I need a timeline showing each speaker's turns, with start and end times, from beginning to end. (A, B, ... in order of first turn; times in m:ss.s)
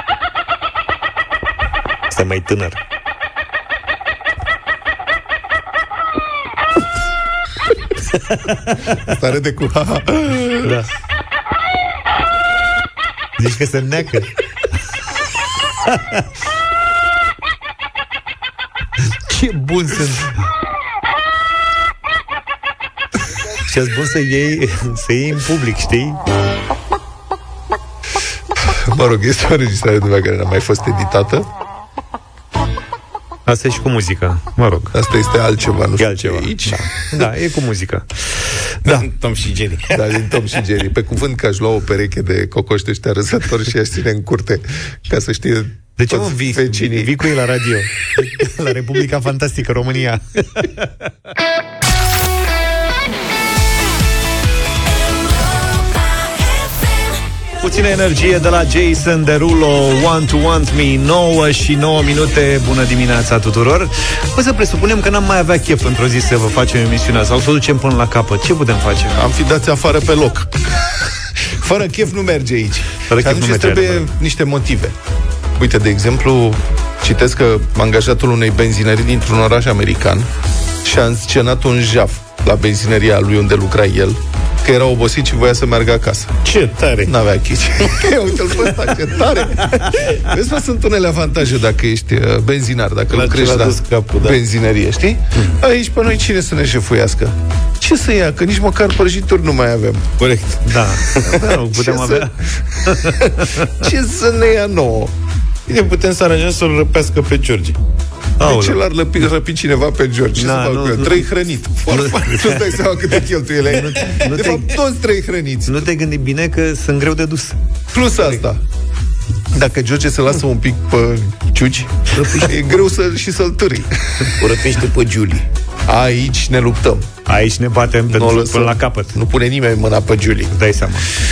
0:02.1-0:02.8 A
0:08.3-0:09.1 A
0:09.1-0:10.7 B
0:10.6-0:10.9 A
0:13.4-0:14.3 A
0:15.9-0:16.2 A
0:19.3-0:20.4 A
0:23.7-0:26.2 A
0:28.6-0:31.5 B
0:33.5-0:34.9 A
0:34.9-0:37.2 B
0:36.0-0:38.6 A
0:38.8-0:40.0 C
0:39.9-0:47.1 B
0:46.0-0:50.9 A
0:57.6-1:09.2 A
1:09.2-1:10.6 B
1:11.4-1:15.0 B
1:13.1-1:14.1 A
1:15.6-1:20.3 B
1:20.8-1:26.4 B
1:26.4-1:27.1 C
1:27.1-1:40.2 B
1:33.1-1:34.4 C
1:40.2-1:40.6 C
1:40.6-1:43.7 A
1:41.6-1:45.1 B
1:45.7-1:47.8 C
1:48.4-1:48.8 A
1:48.4-1:55.8 B
1:50.4-1:51.3 A
1:51.9-1:52.4 A
1:53.7-1:54.7 A
1:55.7-1:57.6 A
1:57.9-1:58.6 B
1:59.5-2:04.3 B
2:02.2-2:02.5 A
2:04.4-2:05.5 C
2:05.9-2:07.1 B
2:07.3-2:09.2 A
2:08.1-2:10.6 B
2:10.5-2:11.1 A